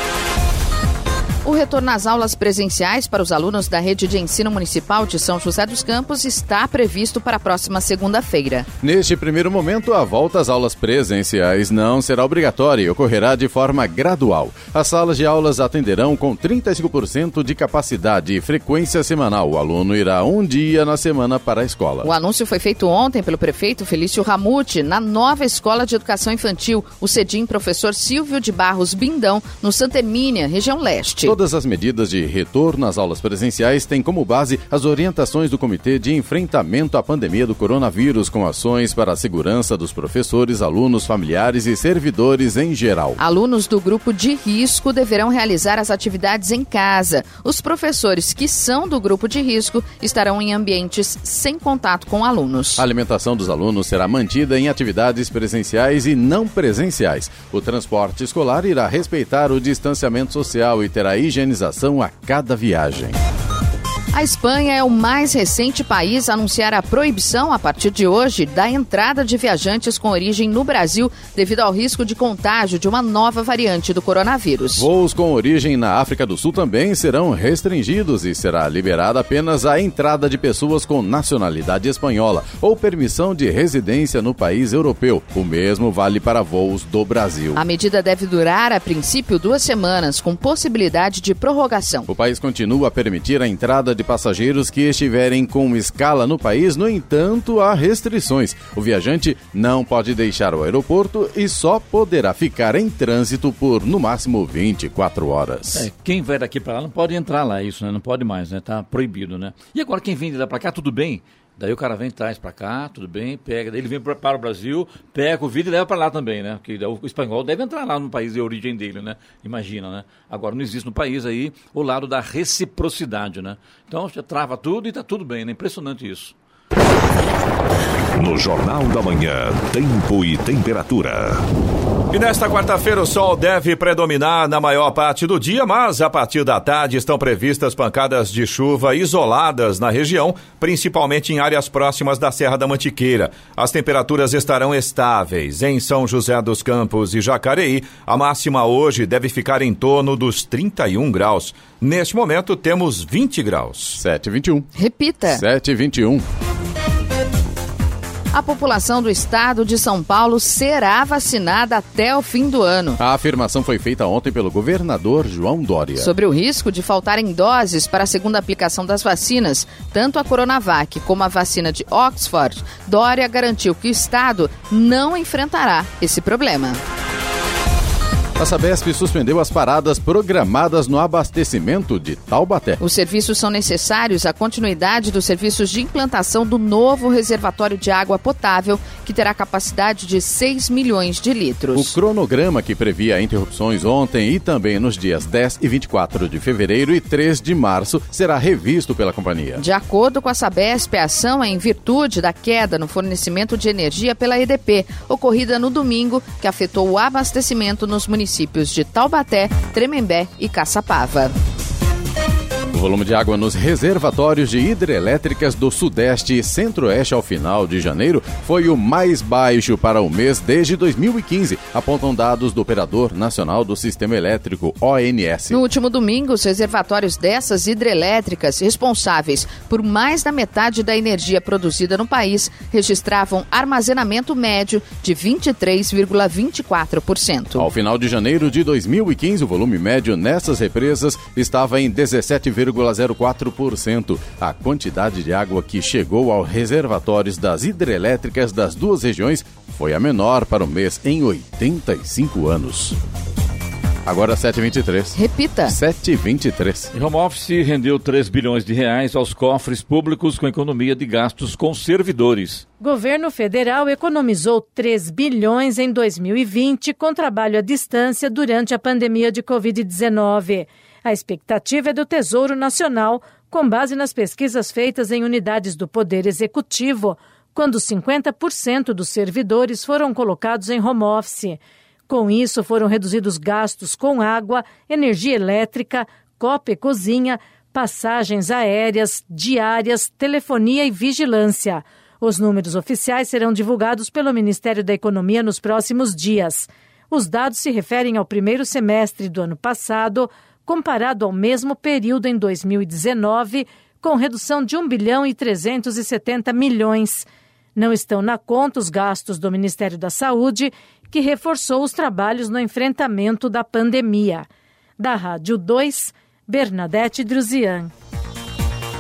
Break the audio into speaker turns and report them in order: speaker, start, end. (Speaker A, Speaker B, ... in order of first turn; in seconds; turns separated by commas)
Speaker A: 1.4-8.7, Speaker B: 8.8-22.1, Speaker A: 22.0-31.4, Speaker B: 31.2-43.2, Speaker A: 43.2-52.8, Speaker B: 52.8-63.2, Speaker A: 64.1-74.9, Speaker B: 74.8-87.6, Speaker A: 87.6-92.1, Speaker B: 92.1-105.9, Speaker C: 105.7-126.3, Speaker D: 128.2-131.5, Speaker E: 132.1-154.0, Speaker B: 154.0-154.7, Speaker A: 154.8-155.4, Speaker B: 155.3-156.2, Speaker A: 158.3-163.0, Speaker B: 163.0-166.1, Speaker A: 166.0-176.8, Speaker B: 178.4-182.8, Speaker A: 182.8-191.9, Speaker B: 191.7-199.6, Speaker A: 199.6-211.3, Speaker B: 212.7-225.6, Speaker A: 225.5-237.7, Speaker B: 237.6-253.0, Speaker B: 254.1-256.9, Speaker A: 255.2-255.8, Speaker C: 256.9-262.6, Speaker F: 262.8-314.5, Speaker F: 315.0-317.9